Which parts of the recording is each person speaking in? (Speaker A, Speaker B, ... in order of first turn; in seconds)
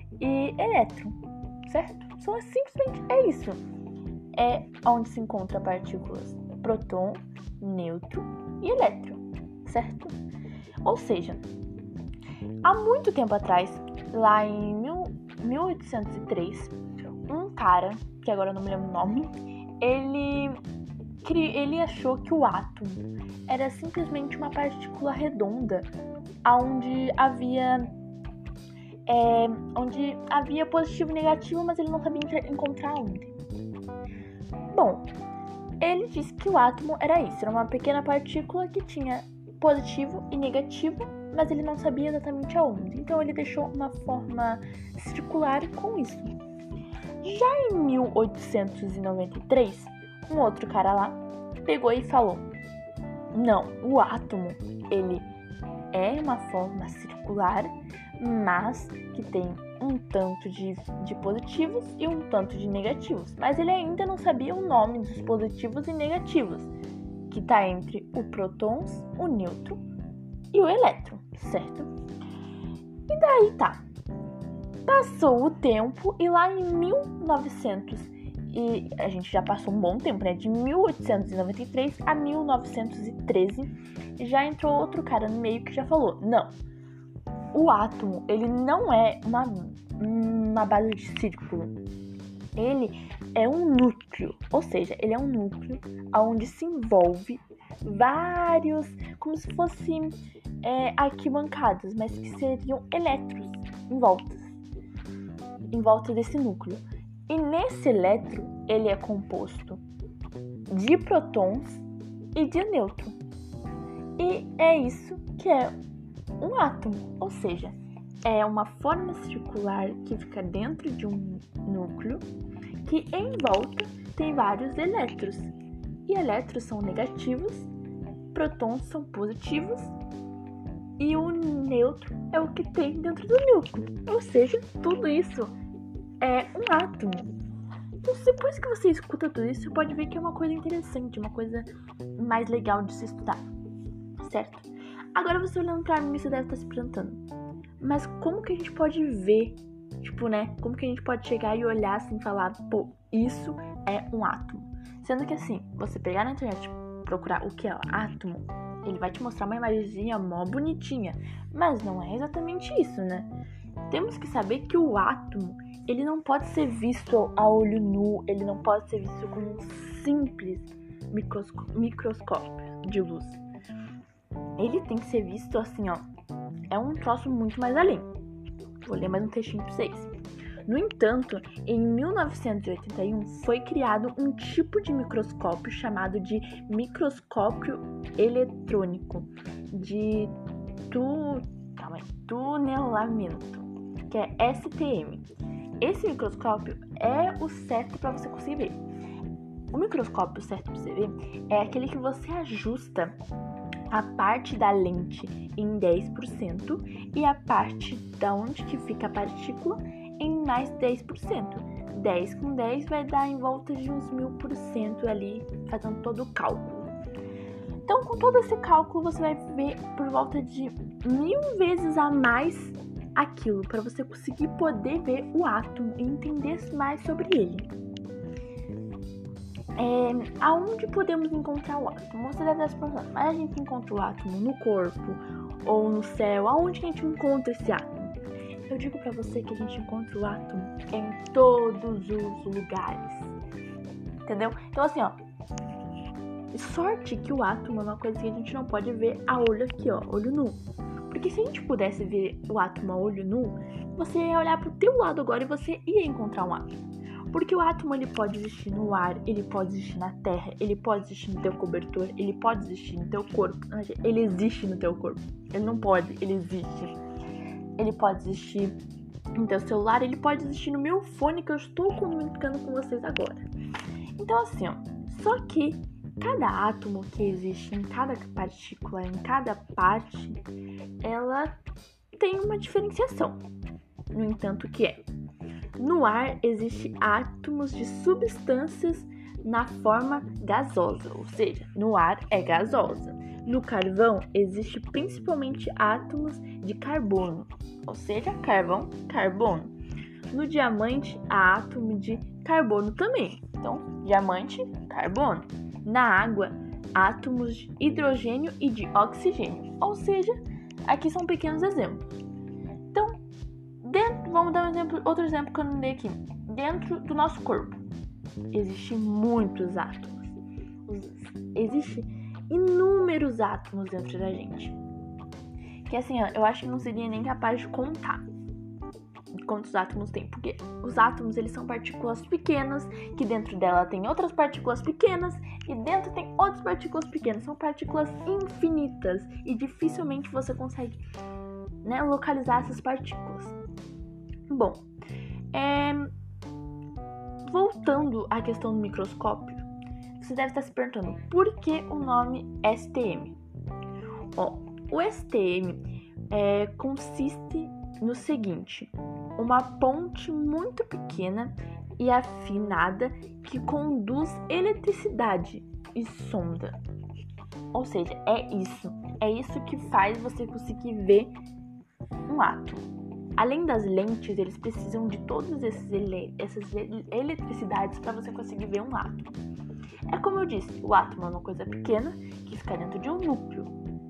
Speaker A: 0.2-3.6, 4.3-10.2, 10.8-11.5, 12.6-16.8, 17.3-20.6, 21.2-25.9, 26.4-27.9, 29.1-33.4, 34.7-35.1, 35.8-46.4, 47.2-52.5, 53.3-55.3, 55.9-66.7, 67.3-69.8, 70.5-71.9, 73.1-73.8, 74.9-86.5, 87.5-91.8, 92.6-104.6, 105.7-109.8, 110.7-113.2, 114.2-115.7, 116.4-122.3, 122.8-125.5, 126.1-127.7, 128.3-129.9, 131.0-135.6, 136.2-137.3, 138.0-143.4, 144.2-147.2, 147.8-163.3, 163.9-173.4, 174.6-176.0, 176.7-178.1, 178.8-180.1, 180.7-190.3, 190.9-195.3, 195.8-198.8, 199.7-203.2, 203.9-216.9, 217.9-227.7, 229.8-238.2, 238.7-243.3, 244.3-245.2, 246.5-256.7, 257.3-267.0, 267.8-268.8, 269.4-273.5, 274.2-280.4, 281.0-281.6, 282.2-283.4, 284.1-285.1, 285.8-299.8, 300.3-312.1, 312.9-313.2, 313.8-317.8, 318.5-324.8, 325.9-328.3, 329.4-341.0, 341.8-343.6, 344.5-344.9, 345.5-346.1, 347.5-349.7, 350.2-353.4, 354.4-366.8, 367.7-371.4, 372.3-379.4, 380.1-383.7